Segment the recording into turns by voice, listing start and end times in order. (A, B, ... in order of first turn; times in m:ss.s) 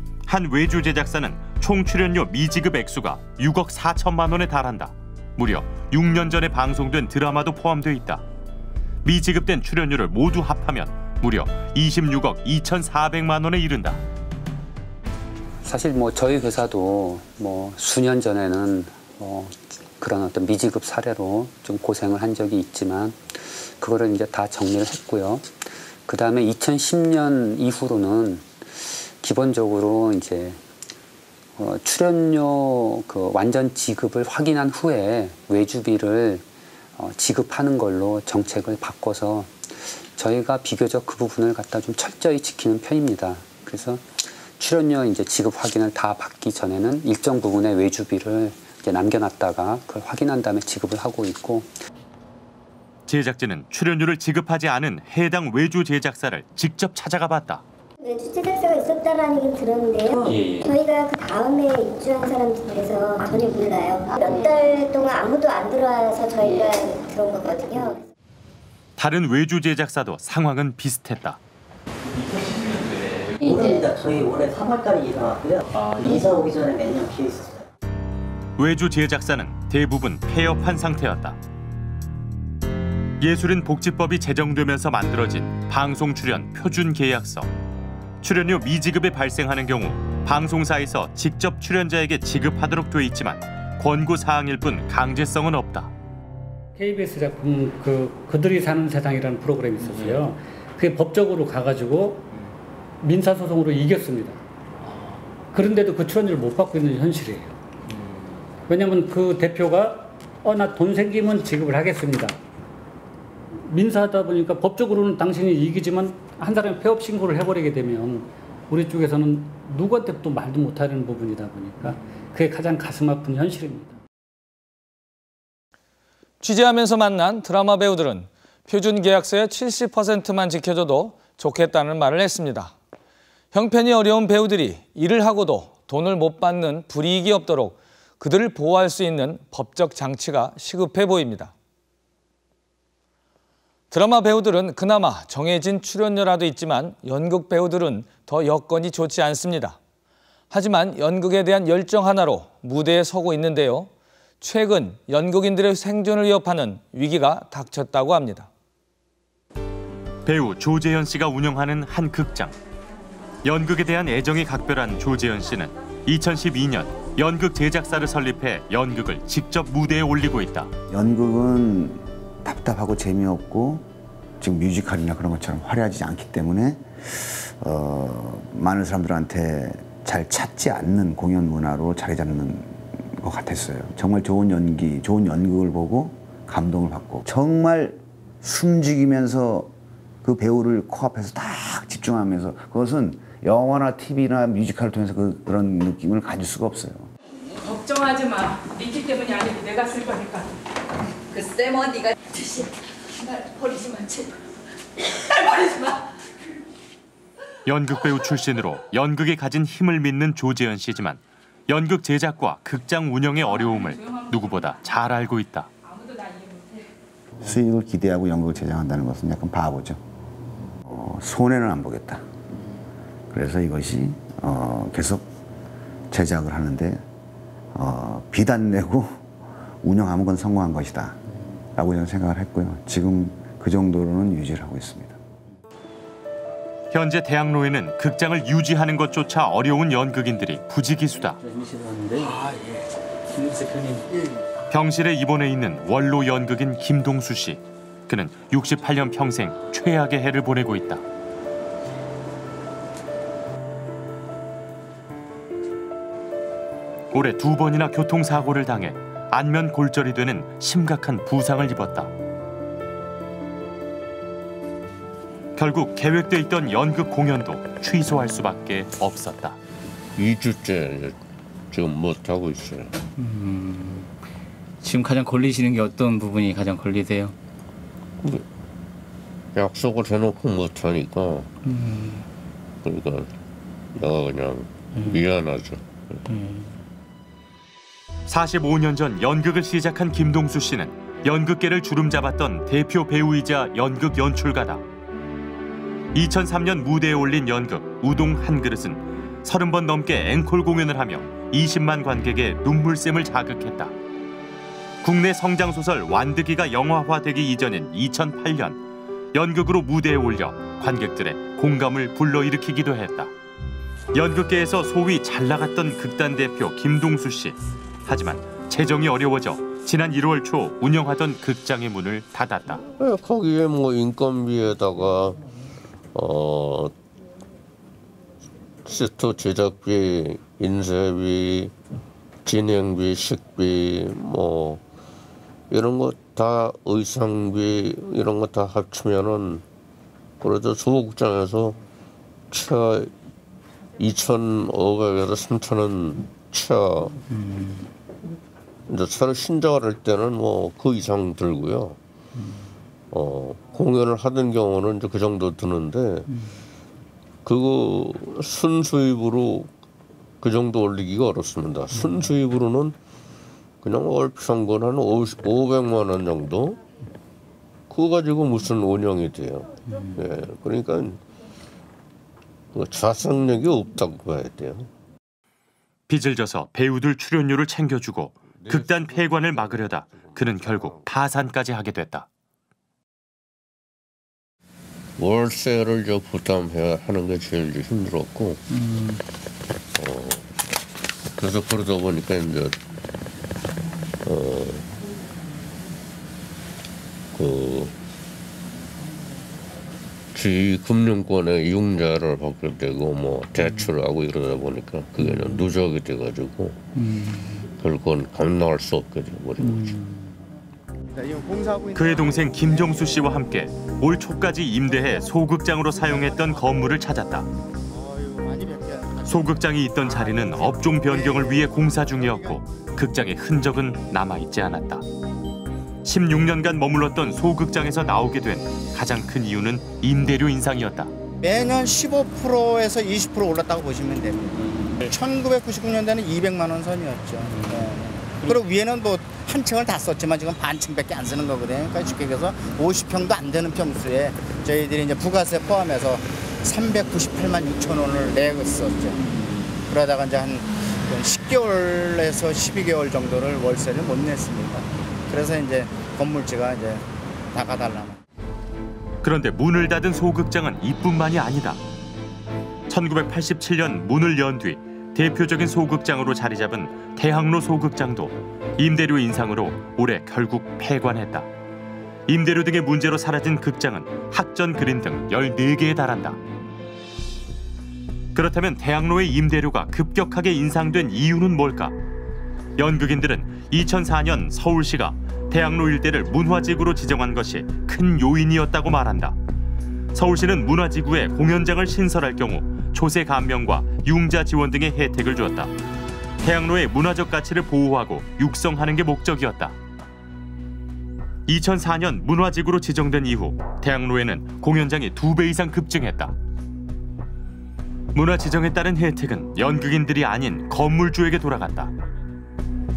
0:00.3-0:08.2 A
0:09.0-0:14.0 A
0:15.6-0:30.6 B
0:31.6-0:36.4 B
0:37.0-0:51.7 B
0:53.1-0:57.6 A
0:58.0-1:08.0 C
1:09.0-1:11.4 A
1:13.4-1:13.7 C
1:13.5-1:17.6 D
1:18.6-1:21.4 A
1:23.2-1:27.5 A
1:28.2-1:35.9 A
1:36.8-1:42.3 E
1:43.0-1:44.4 E
1:45.5-1:47.5 E
1:48.7-1:52.4 E
1:53.6-2:04.0 E
2:06.4-2:12.7 F
2:13.5-2:21.5 F
2:23.9-2:29.8 F
2:30.5-2:33.9 F
2:34.4-2:38.5 F
2:40.2-2:42.5 A
2:43.4-2:50.7 A
2:50.9-2:53.8 G
2:54.4-3:09.7 G
3:10.2-3:17.1 G
3:17.5-3:20.5 H
3:21.3-3:24.3 H
3:25.2-3:26.0 H
3:27.6-3:35.7 A
3:35.9-3:36.8 H
3:37.4-3:40.0 G
3:40.8-3:42.2 G
3:43.3-3:45.2 G
3:46.1-3:47.0 G
3:47.7-3:49.3 G
3:49.8-3:51.2 G
3:51.7-3:55.2 G
3:56.9-4:01.4 A
4:01.6-4:02.3 I
4:03.4-4:04.0 I
4:04.7-4:11.0 A
4:17.1-4:22.1 A
4:25.6-4:29.6 A
4:30.2-4:31.2 J
4:31.7-4:32.9 J
4:33.2-4:34.1 I
4:34.8-4:37.3 I
4:39.5-4:41.5 J
4:41.7-4:42.2 I
4:42.8-4:43.3 J
4:43.9-4:46.2 J
4:46.3-4:46.7 I
4:48.3-4:54.8 A
4:56.1-5:03.9 A
5:05.0-5:08.8 A
5:09.3-5:13.3 A
5:14.1-5:22.8 A
5:23.0-5:25.4 J
5:26.1-5:26.9 J
5:28.8-5:31.7 J
5:32.4-5:34.8 J
5:35.7-5:39.6 J
5:40.4-5:41.8 J
5:42.5-5:43.1 J
5:44.0-5:47.2 J
5:47.3-5:47.9 I
5:48.9-5:52.0 J
5:53.1-5:56.3 J
5:57.4-5:59.7 J
6:00.4-6:03.0 J
6:03.8-6:06.8 J
6:07.9-6:11.2 J
6:12.7-6:14.9 J
6:16.1-6:22.3 A
6:18.6-6:21.0 J
6:25.2-6:28.6 J
6:28.7-6:29.2 I
6:29.9-6:30.5 J
6:31.4-6:32.8 J
6:34.2-6:34.9 J
6:37.3-6:37.9 J
6:40.3-6:46.8 J
6:47.0-6:47.6 I
6:47.8-6:49.9 J
6:49.6-6:50.2 I
6:51.0-6:53.4 K
6:51.9-6:57.5 A
6:54.9-6:56.8 K
6:57.9-7:02.6 K
6:59.3-7:05.0 A
7:06.0-7:11.1 A
7:11.4-7:29.3 K
7:29.9-7:38.2 K
7:39.2-7:41.8 A
7:42.9-7:51.5 A
7:52.3-7:56.4 A
7:58.3-8:01.9 A
8:02.8-8:09.4 A
8:10.1-8:15.7 A
8:16.4-8:19.7 A
8:21.5-8:26.3 A
8:28.1-8:31.9 A